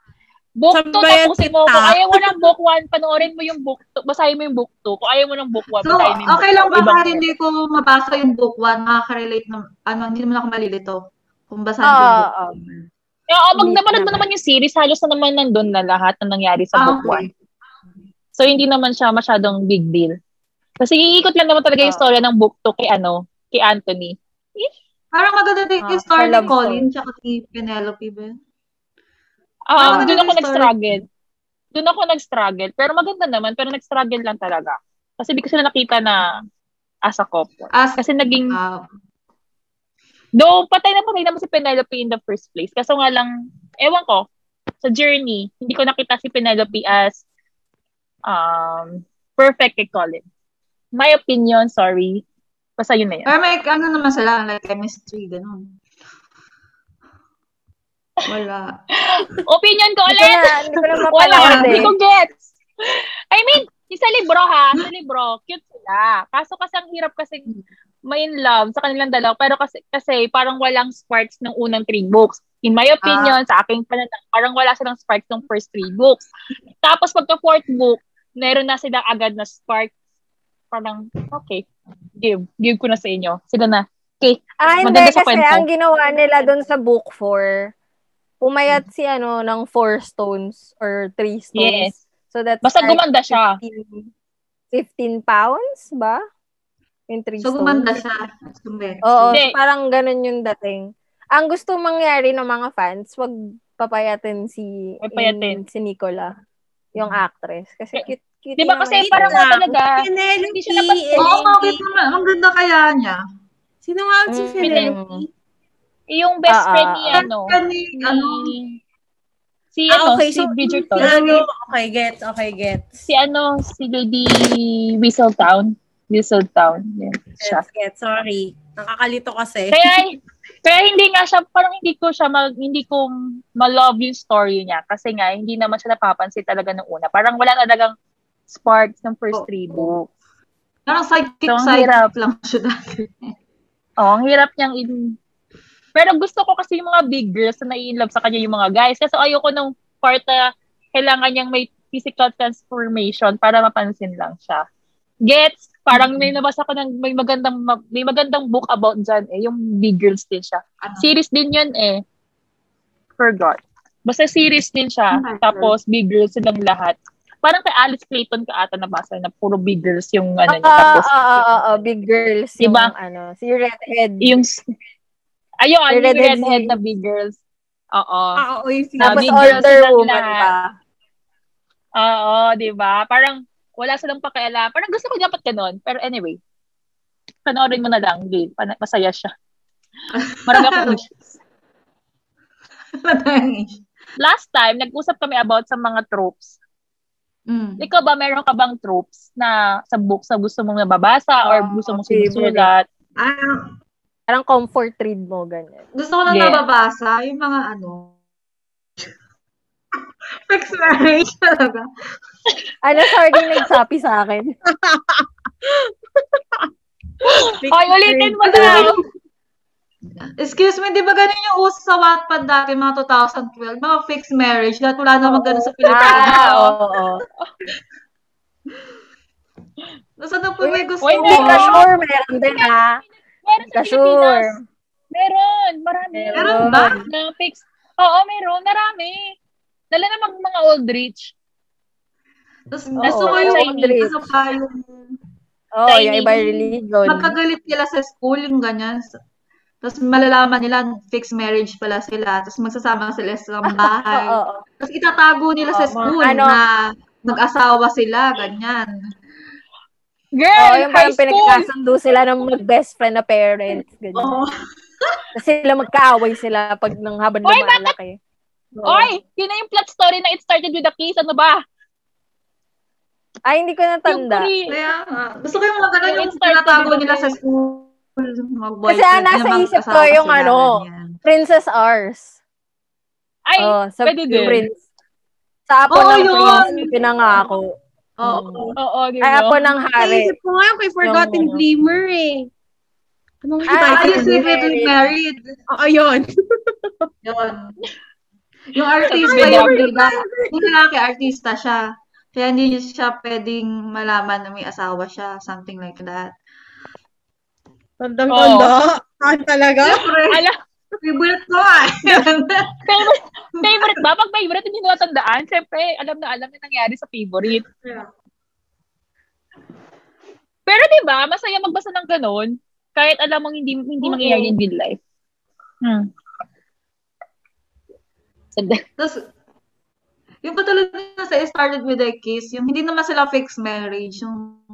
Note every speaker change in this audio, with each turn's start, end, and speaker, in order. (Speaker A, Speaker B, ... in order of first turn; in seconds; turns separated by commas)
Speaker A: 0.6-7.2, Speaker B: 0.7-2.5, Speaker C: 5.8-11.0, Speaker C: 11.5-12.8, Speaker D: 11.8-12.6, Speaker A: 13.3-17.3, Speaker D: 13.6-14.2, Speaker C: 16.7-17.3, Speaker A: 18.4-20.1, Speaker A: 20.8-24.7, Speaker C: 25.1-28.3, Speaker D: 25.8-26.9, Speaker A: 29.7-31.0, Speaker C: 29.8-30.7, Speaker D: 29.8-30.1, Speaker A: 31.7-36.4, Speaker A: 37.1-38.5, Speaker C: 37.7-38.8, Speaker A: 40.4-43.3, Speaker A: 43.8-44.2, Speaker A: 44.8-47.2, Speaker A: 48.3-50.2, Speaker A: 51.0-52.2, Speaker A: 52.8-53.3, Speaker C: 53.2-55.7, Speaker C: 58.2-58.8, Speaker A: 59.0-67.5, Speaker D: 60.1-61.9, Speaker C: 61.4-61.9, Speaker A: 68.1-76.3, Speaker C: 73.0-73.4, Speaker A: 76.8-79.9, Speaker A: 80.7-81.6, Speaker A: 82.2-85.6, Speaker D: 84.6-87.7, Speaker D: 88.4-94.1, Speaker A: 91.5-91.9, Speaker A: 92.6-93.6, Speaker D: 94.7-96.2, Speaker D: 97.1-98.0, Speaker C: 97.4-99.4, Speaker D: 99.0-106.3, Speaker A: 105.0-105.6, Speaker D: 107.0-109.5, Speaker A: 107.9-110.0, Speaker B: 109.0-111.8, Speaker A: 110.5-111.3, Speaker C: 111.2-113.2, Speaker B: 113.8-115.3, Speaker D: 114.3-115.2, Speaker A: 114.6-114.9, Speaker A: 116.1-118.7, Speaker D: 116.5-117.2, Speaker C: 117.1-118.5, Speaker A: 119.7-121.1, Speaker B: 119.9-122.9, Speaker C: 121.0-121.5, Speaker A: 123.1-127.6, Speaker B: 127.4-129.9, Speaker A: 129.7-137.9, Speaker A: 138.5-140.1, Speaker C: 139.3-139.9, Speaker C: 140.9-143.3, Speaker A: 141.5-142.1, Speaker A: 144.0-144.9, Speaker A: 145.9-150.4, Speaker A: 150.9-154.6, Speaker A: 155.2-162.0, Speaker C: 155.9-156.3, Speaker C: 160.8-161.1, Speaker A: 163.2-171.2, Speaker C: 165.1-165.7, Speaker D: 170.5-174.3, Speaker A: 172.6-172.9, Speaker A: 174.2-174.6, Speaker A: 175.6-177.4, Speaker D: 175.9-176.7, Speaker A: 177.9-178.4, Speaker B: 178.4-179.6, Speaker A: 179.0-180.5, Speaker D: 179.0-180.7, Speaker A: 182.0-186.4, Speaker A: 187.4-189.3, Speaker C: 190.1-191.0, Speaker A: 190.5-191.4, Speaker C: 193.0-193.8, Speaker A: 194.2-196.6, Speaker C: 197.5-197.8, Speaker A: 197.8-202.8, Speaker D: 201.4-202.7, Speaker C: 203.2-203.6, Speaker D: 204.3-205.8, Speaker C: 205.9-208.1, Speaker A: 206.3-206.6, Speaker C: 210.5-211.9, Speaker D: 212.8-214.5, Speaker A: 213.3-213.6, Speaker B: 214.7-216.7, Speaker A: 217.2-219.0, Speaker B: 217.6-219.0, Speaker C: 218.4-218.9, Speaker C: 220.4-226.4, Speaker A: 225.8-226.8, Speaker D: 225.9-227.2, Speaker C: 230.2-231.9, Speaker D: 230.6-233.0, Speaker A: 231.0-231.9, Speaker A: 233.4-234.5, Speaker D: 233.7-234.6, Speaker A: 235.1-239.3, Speaker D: 236.1-237.0, Speaker C: 236.3-237.1, Speaker A: 239.9-241.3, Speaker C: 242.7-244.9, Speaker D: 243.0-244.3, Speaker A: 243.0-243.9, Speaker D: 245.8-247.3, Speaker A: 245.9-246.7, Speaker C: 247.1-249.1, Speaker C: 249.8-258.9, Speaker D: 253.7-254.6, Speaker D: 255.7-256.6, Speaker A: 260.4-261.7, Speaker D: 260.6-264.3, Speaker C: 264.1-264.5, Speaker D: 265.3-268.2, Speaker A: 267.4-267.9, Speaker C: 268.7-269.1, Speaker A: 268.9-271.6, Speaker D: 273.4-274.5, Speaker A: 274.1-274.8, Speaker C: 274.7-281.1, Speaker A: 276.0-277.4, Speaker D: 278.9-282.4, Speaker A: 283.5-284.6, Speaker D: 283.6-284.8, Speaker D: 285.7-290.3, Speaker C: 285.9-286.9, Speaker A: 286.4-286.6, Speaker C: 288.2-288.8, Speaker A: 288.8-289.7, Speaker B: 290.0-292.5, Speaker D: 291.0-291.6, Speaker B: 293.4-294.4, Speaker D: 293.7-294.9, Speaker C: 293.9-295.6, Speaker B: 295.7-297.1, Speaker C: 297.2-297.8, Speaker C: 298.7-306.3, Speaker A: 299.1-299.9, Speaker B: 299.2-300.6, Speaker B: 308.0-310.1, Speaker A: 308.3-308.7, Speaker C: 309.8-310.4, Speaker A: 310.3-310.5, Speaker C: 311.0-313.1, Speaker A: 312.9-317.6, Speaker C: 313.6-314.0, Speaker C: 317.8-318.1, Speaker A: 320.7-325.0, Speaker C: 324.0-324.5, Speaker A: 325.8-326.1, Speaker A: 328.6-328.8, Speaker C: 329.0-329.2, Speaker C: 330.4-334.6